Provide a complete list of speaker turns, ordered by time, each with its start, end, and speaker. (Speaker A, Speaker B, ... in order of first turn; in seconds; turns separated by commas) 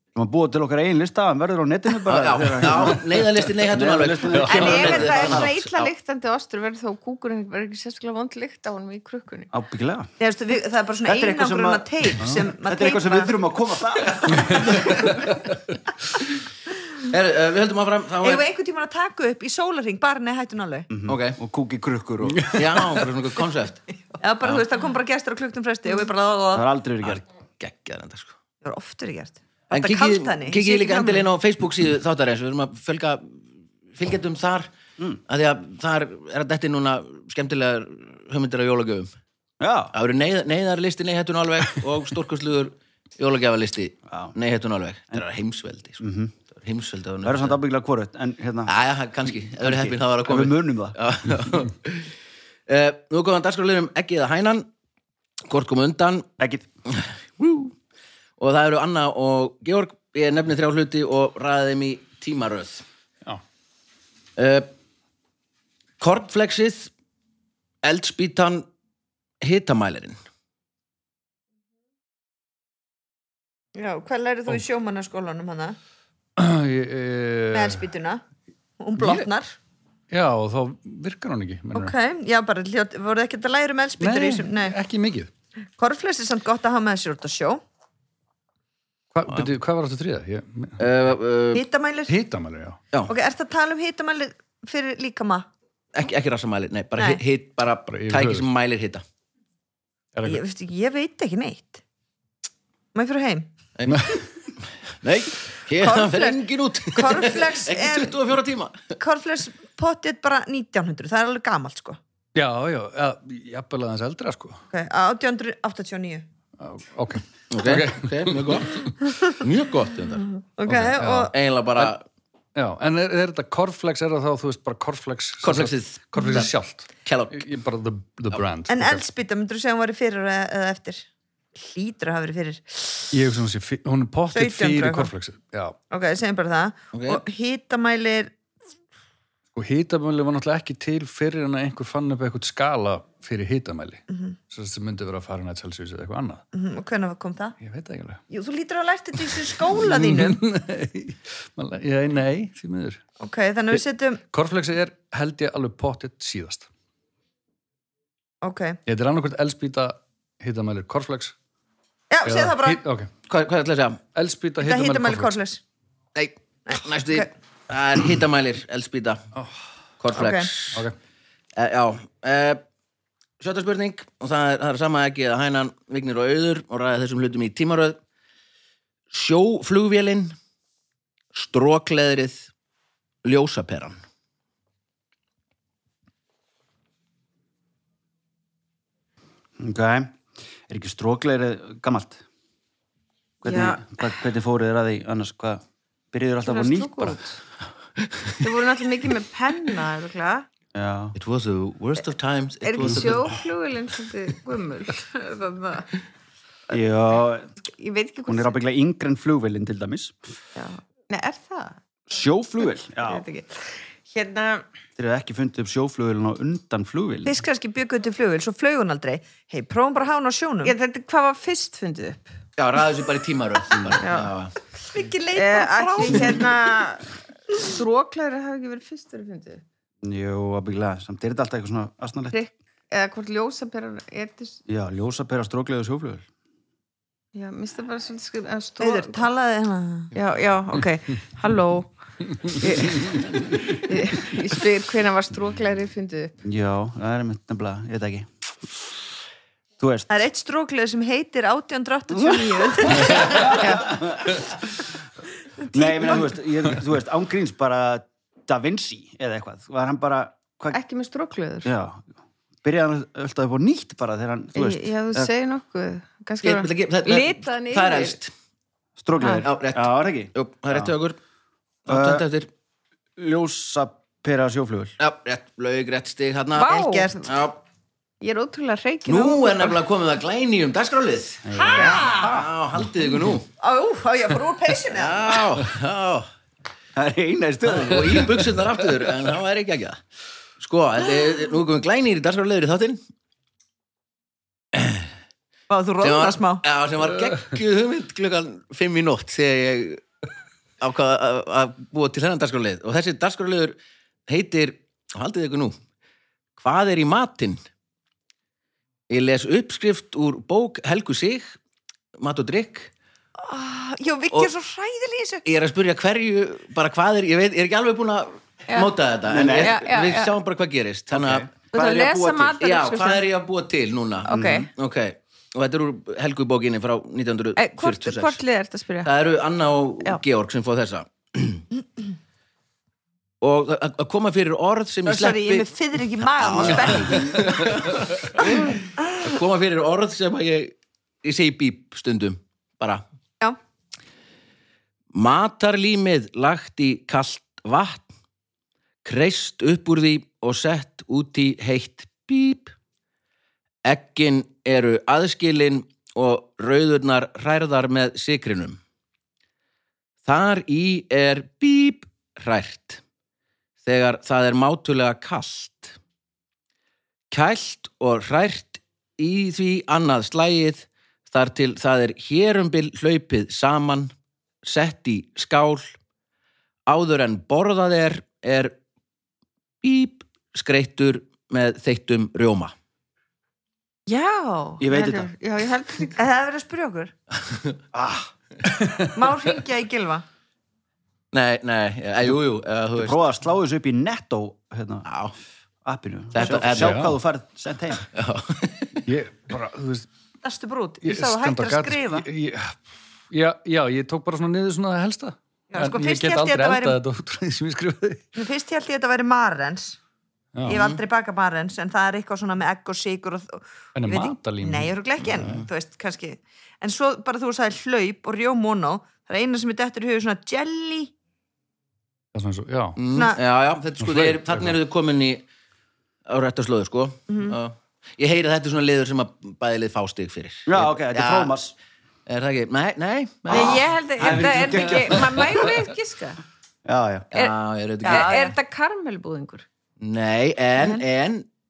Speaker A: 0.1-5.5, Speaker B: 2.0-5.9, Speaker C: 4.5-9.5, Speaker A: 9.5-10.1, Speaker D: 10.2-13.3, Speaker A: 11.0-15.1, Speaker B: 14.3-14.9, Speaker B: 17.1-18.4, Speaker D: 18.2-20.9, Speaker A: 20.9-22.6, Speaker B: 21.1-21.4, Speaker E: 22.4-22.6, Speaker B: 22.4-23.8, Speaker D: 24.2-26.7, Speaker A: 26.5-27.2, Speaker B: 27.0-28.4, Speaker D: 28.6-31.3, Speaker B: 29.7-34.7, Speaker B: 35.3-39.1, Speaker A: 39.6-39.9, Speaker B: 39.9-47.6, Speaker A: 44.1-44.3, Speaker A: 46.0-46.3, Speaker A: 47.2-48.7, Speaker B: 48.6-52.1, Speaker A: 49.4-51.0, Speaker B: 52.7-54.7, Speaker B: 55.5-56.3, Speaker A: 56.4-56.7, Speaker B: 56.9-57.7, Speaker B: 58.4-62.8, Speaker B: 64.3-64.7, Speaker B: 66.0-66.9, Speaker B: 67.8-68.7, Speaker B: 69.4-70.2, Speaker D: 73.7-75.8, Speaker E: 76.4-77.8, Speaker D: 77.5-78.2, Speaker D: 78.8-79.5, Speaker E: 79.0-79.3, Speaker E: 80.1-81.9, Speaker D: 81.7-84.8, Speaker E: 84.0-85.3, Speaker D: 85.8-87.6, Speaker E: 89.1-90.8, Speaker B: 90.8-91.6, Speaker D: 91.5-92.1, Speaker E: 92.1-92.8, Speaker D: 93.1-95.5, Speaker B: 95.9-99.0, Speaker E: 97.9-98.5, Speaker E: 100.1-100.4, Speaker D: 100.2-101.8, Speaker D: 102.9-103.5, Speaker B: 103.8-104.2, Speaker E: 103.9-104.2, Speaker B: 105.0-108.9, Speaker D: 105.8-108.2, Speaker D: 109.0-112.0, Speaker E: 112.3-114.6, Speaker D: 114.7-116.2, Speaker E: 116.6-118.9, Speaker B: 117.5-120.3, Speaker D: 120.4-121.3, Speaker E: 120.7-121.9, Speaker B: 121.3-122.0, Speaker E: 122.5-129.0, Speaker B: 125.4-126.5, Speaker B: 127.0-127.5, Speaker D: 128.7-133.1, Speaker E: 133.1-135.8, Speaker D: 134.3-135.1, Speaker D: 135.9-138.3, Speaker B: 136.9-137.2, Speaker E: 139.5-146.4, Speaker D: 144.1-144.4, Speaker D: 146.5-147.6, Speaker E: 147.6-148.2, Speaker D: 148.3-150.4, Speaker E: 149.3-153.0, Speaker D: 153.2-154.2, Speaker E: 154.3-156.7, Speaker D: 158.4-158.8, Speaker E: 158.8-161.3, Speaker D: 162.1-162.8, Speaker E: 162.2-163.1, Speaker B: 163.3-164.0, Speaker E: 164.1-165.3, Speaker D: 164.6-165.6, Speaker B: 166.1-169.2, Speaker D: 166.7-167.3, Speaker B: 170.0-170.9, Speaker D: 170.1-170.5, Speaker B: 171.6-172.6, Speaker B: 173.4-178.0, Speaker B: 179.1-180.3, Speaker B: 181.3-182.5, Speaker B: 183.2-184.0, Speaker A: 189.6-190.2, Speaker A: 190.7-192.2, Speaker A: 193.4-195.6, Speaker C: 193.4-193.9, Speaker A: 196.1-197.2, Speaker C: 196.4-197.4, Speaker B: 198.0-198.3, Speaker C: 198.4-200.5, Speaker A: 200.7-201.1, Speaker B: 201.1-203.3, Speaker C: 202.6-205.9, Speaker A: 202.8-203.1, Speaker A: 206.7-207.5, Speaker C: 207.8-208.5, Speaker A: 208.2-210.2, Speaker C: 210.6-211.8, Speaker A: 212.1-213.2, Speaker C: 213.0-214.6, Speaker A: 215.0-217.3, Speaker D: 217.2-220.7, Speaker C: 220.6-222.3, Speaker B: 222.6-224.5, Speaker C: 224.0-224.3, Speaker D: 224.9-226.5, Speaker C: 225.3-229.6, Speaker A: 230.0-232.3, Speaker C: 232.3-234.6, Speaker A: 234.7-236.2, Speaker C: 237.3-239.2, Speaker D: 238.8-240.1, Speaker C: 240.1-241.9, Speaker C: 242.4-246.3, Speaker A: 246.4-248.3, Speaker A: 249.8-250.1, Speaker D: 250.1-254.0, Speaker A: 252.1-254.9, Speaker C: 253.6-253.8, Speaker D: 255.6-256.3, Speaker A: 255.7-260.8, Speaker C: 260.7-261.7, Speaker A: 261.6-262.0, Speaker A: 262.6-265.3, Speaker C: 264.5-268.2, Speaker B: 266.4-268.3, Speaker A: 269.0-270.9, Speaker B: 269.4-271.2, Speaker A: 271.9-272.2, Speaker B: 271.9-272.5, Speaker A: 273.2-274.9, Speaker B: 275.0-277.6, Speaker C: 276.6-277.1, Speaker D: 276.6-277.3, Speaker C: 278.2-279.8, Speaker B: 279.1-283.5, Speaker A: 281.4-282.5, Speaker C: 281.7-282.2, Speaker D: 283.6-285.5, Speaker B: 284.9-286.3, Speaker A: 286.9-288.8, Speaker B: 287.6-290.0, Speaker B: 290.6-293.0, Speaker B: 294.7-295.1, Speaker D: 295.7-296.6, Speaker B: 296.0-300.0, Speaker B: 300.8-305.8, Speaker B: 306.6-307.6, Speaker B: 309.1-311.6, Speaker B: 312.2-312.9, Speaker D: 313.4-315.4, Speaker B: 315.4-328.4, Speaker A: 319.3-319.8, Speaker C: 319.5-320.3, Speaker A: 321.1-321.5, Speaker C: 321.7-323.2, Speaker A: 324.3-324.7, Speaker C: 324.3-324.7, Speaker C: 327.6-329.1, Speaker B: 329.0-331.7, Speaker B: 333.4-343.0, Speaker D: 335.1-337.6, Speaker E: 336.9-337.5, Speaker B: 345.1-348.1, Speaker B: 349.0-352.7, Speaker B: 353.8-358.8, Speaker B: 360.2-363.0, Speaker B: 363.8-365.9, Speaker B: 367.3-375.9, Speaker B: 376.9-378.7, Speaker B: 379.8-382.7, Speaker C: 384.1-386.2, Speaker A: 384.8-385.3, Speaker D: 386.1-387.1, Speaker B: 387.5-387.7, Speaker A: 387.9-388.3, Speaker E: 388.6-389.1, Speaker D: 389.1-390.2, Speaker B: 391.3-393.2, Speaker A: 392.9-395.1, Speaker B: 395.0-395.3, Speaker A: 395.8-398.1, Speaker B: 396.3-397.0, Speaker E: 396.7-397.1, Speaker B: 398.1-399.0, Speaker E: 399.1-400.1, Speaker D: 400.4-402.3, Speaker E: 401.0-408.2, Speaker D: 405.7-407.0, Speaker D: 408.4-410.0, Speaker E: 410.5-411.0, Speaker D: 410.6-421.1, Speaker E: 413.9-415.6, Speaker E: 422.3-423.0, Speaker B: 423.0-425.4, Speaker D: 423.1-423.4, Speaker E: 424.0-424.8, Speaker B: 426.2-431.5, Speaker D: 427.3-427.6, Speaker A: 430.7-431.7, Speaker B: 432.2-434.8, Speaker C: 433.5-436.4, Speaker A: 434.2-435.4, Speaker A: 436.8-437.3, Speaker B: 437.3-438.3, Speaker C: 437.4-439.6, Speaker D: 438.0-438.6, Speaker B: 440.0-441.5, Speaker C: 440.8-441.0